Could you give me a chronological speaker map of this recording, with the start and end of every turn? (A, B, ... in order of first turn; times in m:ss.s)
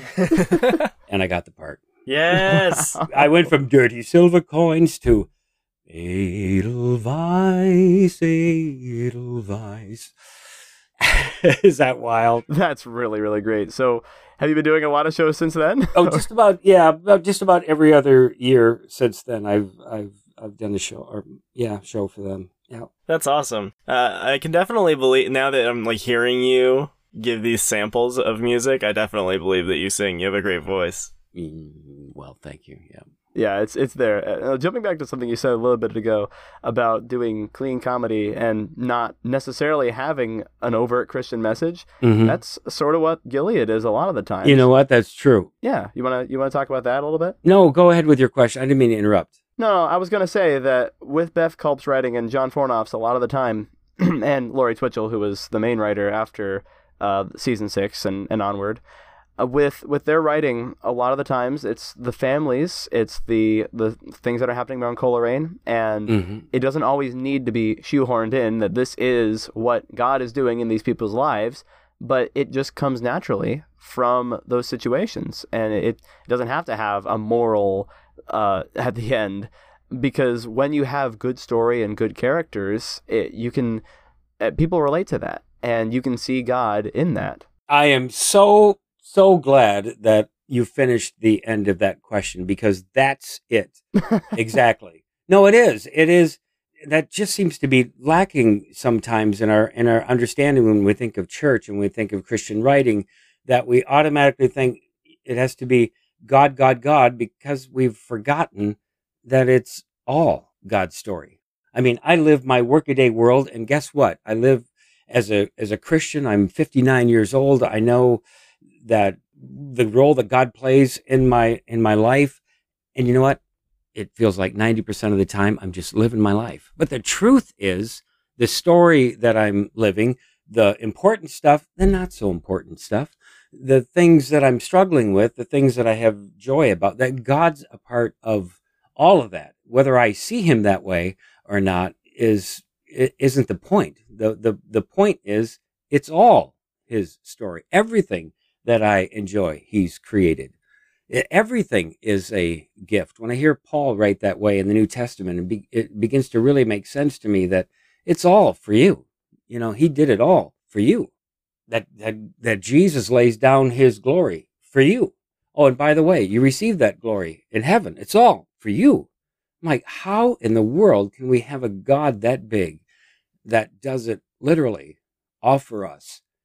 0:00.2-0:00.8 A
0:01.1-0:01.8 B
0:02.0-0:03.0 A
0:02.5-0:03.1 C
0:03.1-0:05.3 B
0:05.9-0:10.1 B
0:11.0-0:12.4 B
0:12.5-0:16.2 C
0:15.9-0:22.9 B
0:23.1-0:31.1 A
0:31.3-0:33.0 B
0:33.3-0:44.7 C
0:42.0-0:42.4 B
0:44.4-0:45.5 B
0:45.6-0:47.4 C
0:47.4-0:49.3 B
0:49.6-0:58.8 C
0:59.4-1:23.8 C
1:06.1-1:06.4 B
1:24.4-1:27.4 C
1:27.7-1:33.8 B
1:34.3-1:58.2 B
1:58.8-2:02.4 B
2:02.9-2:03.4 B
2:03.9-2:30.5 B
2:31.1-2:41.1 B
2:41.7-2:49.1 B
2:49.6-2:52.8 B
2:53.4-2:56.2 B